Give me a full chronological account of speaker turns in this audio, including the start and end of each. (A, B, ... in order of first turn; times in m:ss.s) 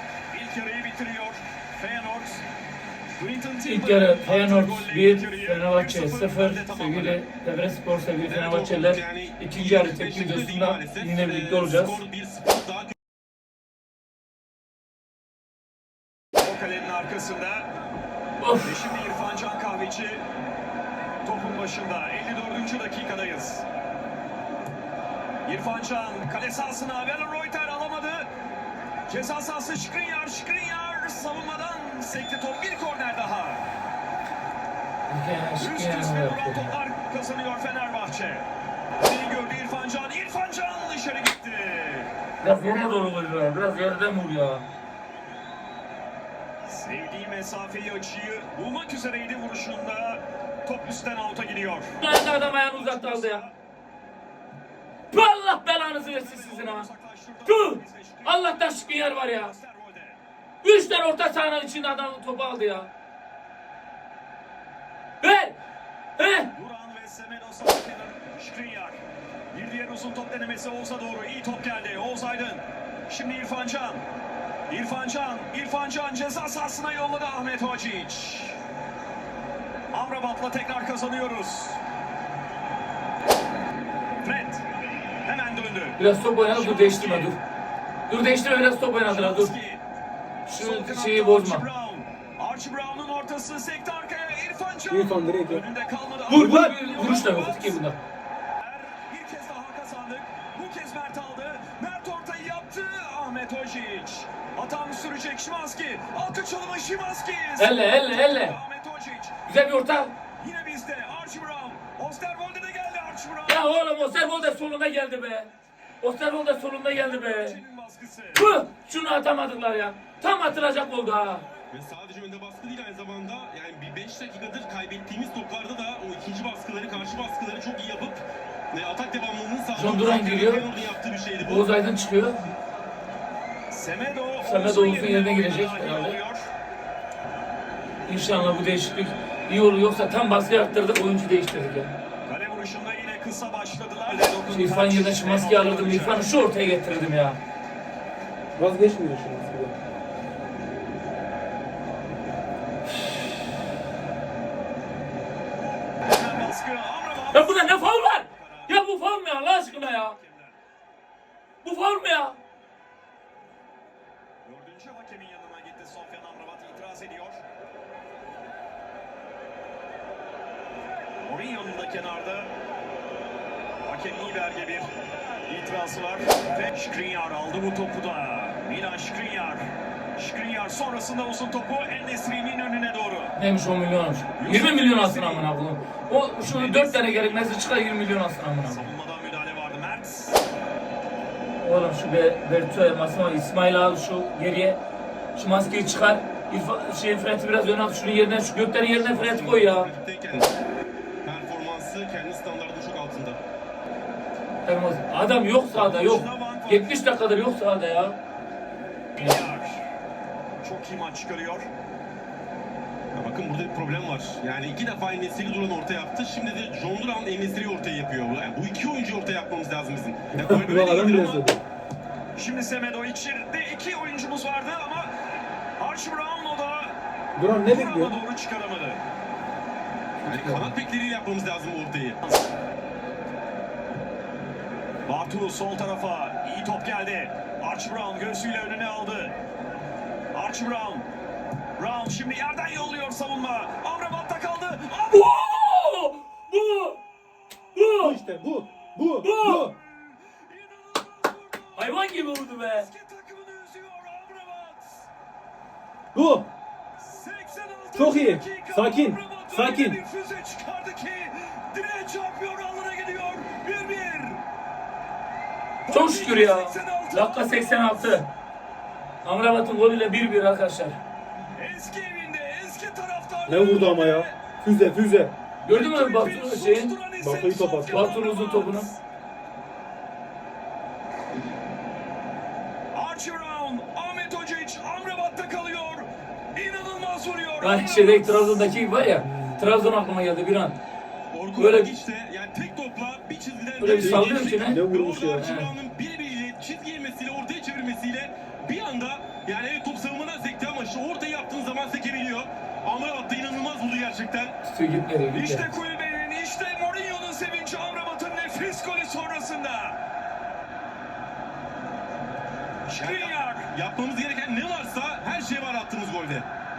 0:00.3-0:02.5 A
0:03.2-0:07.2 A
0:03.6-0:12.0 B
0:08.2-0:12.9 C
0:16.4-0:17.7 A
0:18.4-0:18.8 B
0:18.6-0:20.2 A
0:21.2-0:23.7 A
0:25.4-0:28.3 A
0:29.1-0:33.6 A
0:35.1-0:36.7 B
0:35.6-0:38.5 A
0:39.0-0:42.1 A
0:42.4-0:44.7 B
0:46.6-0:53.6 A
0:52.0-0:53.4 B
0:55.1-0:56.9 B
0:56.2-1:00.2 A
0:57.5-0:59.5 B
1:00.6-1:02.9 B
1:05.2-1:05.6 B
1:06.2-1:06.5 B
1:06.5-1:09.0 A
1:09.5-1:14.0 A
1:14.7-1:18.6 A
1:19.9-1:21.8 A
1:24.2-1:24.6 A
1:25.2-1:27.4 A
1:26.0-1:27.4 B
1:28.1-1:29.5 B
1:29.1-1:29.8 A
1:30.5-1:31.6 B
1:30.6-1:37.8 A
1:34.9-1:35.6 D
1:36.3-1:38.0 B
1:36.4-1:36.7 D
1:38.6-1:49.4 A
1:47.6-1:48.6 B
1:49.5-1:50.1 B
1:50.4-1:54.4 A
1:53.5-1:55.5 B
1:56.0-1:57.6 B
1:56.9-1:58.6 A
1:58.3-2:01.4 B
2:01.7-2:11.7 C
2:09.8-2:10.7 B
2:11.4-2:12.4 B
2:13.7-2:16.5 A
2:14.4-2:16.2 B
2:18.1-2:21.9 B
2:22.3-2:26.4 A
2:24.5-2:27.4 B
2:28.6-2:29.8 D
2:36.0-2:38.8 A
2:37.3-2:40.2 B
2:39.8-2:40.6 A
2:41.6-2:42.4 B
2:44.4-2:47.4 A
2:51.2-2:52.5 A
2:53.8-2:54.9 A
2:55.5-3:03.4 A
3:03.4-3:08.9 B
3:04.4-3:05.5 A
3:06.4-3:07.6 A
3:08.6-3:10.4 A
3:11.6-3:14.8 B
3:15.4-3:19.9 B
3:18.8-3:20.6 C
3:21.2-3:23.4 C
3:24.6-3:28.2 B
3:25.8-3:27.0 A
3:29.2-3:29.8 A
3:30.6-3:31.7 A
3:33.1-3:41.5 C
3:40.3-3:41.6 D
3:42.4-3:45.1 A
3:45.8-3:47.0 A
3:47.4-3:48.2 D
3:47.6-3:49.0 A
3:50.2-3:50.7 D
3:50.2-3:52.2 C
3:52.2-3:52.5 A
3:55.0-3:59.4 A
4:00.3-4:01.1 A
4:01.8-4:05.3 A
4:05.1-4:07.0 B
4:07.8-4:08.2 B
4:08.0-4:09.7 D
4:09.2-4:09.7 B
4:09.5-4:15.1 A
4:11.8-4:12.9 B
4:16.1-4:16.5 D
4:17.0-4:24.4 A
4:18.0-4:20.0 D
4:25.9-4:28.2 A
4:25.9-4:28.3 B
4:29.2-4:31.0 B
4:31.6-4:34.4 A
4:33.5-4:35.3 D
4:35.6-4:37.0 B
4:35.7-4:39.0 A
4:37.2-4:38.1 D
4:37.9-4:38.9 B
4:42.9-4:48.7 A
4:47.6-4:50.8 B
4:49.2-4:49.6 D
4:51.3-5:04.6 C
4:51.6-4:51.9 B
4:53.8-4:55.7 B
4:53.9-4:55.5 D
5:04.6-5:05.7 B
5:05.3-5:10.0 A
5:12.9-5:13.7 A
5:13.0-5:16.5 C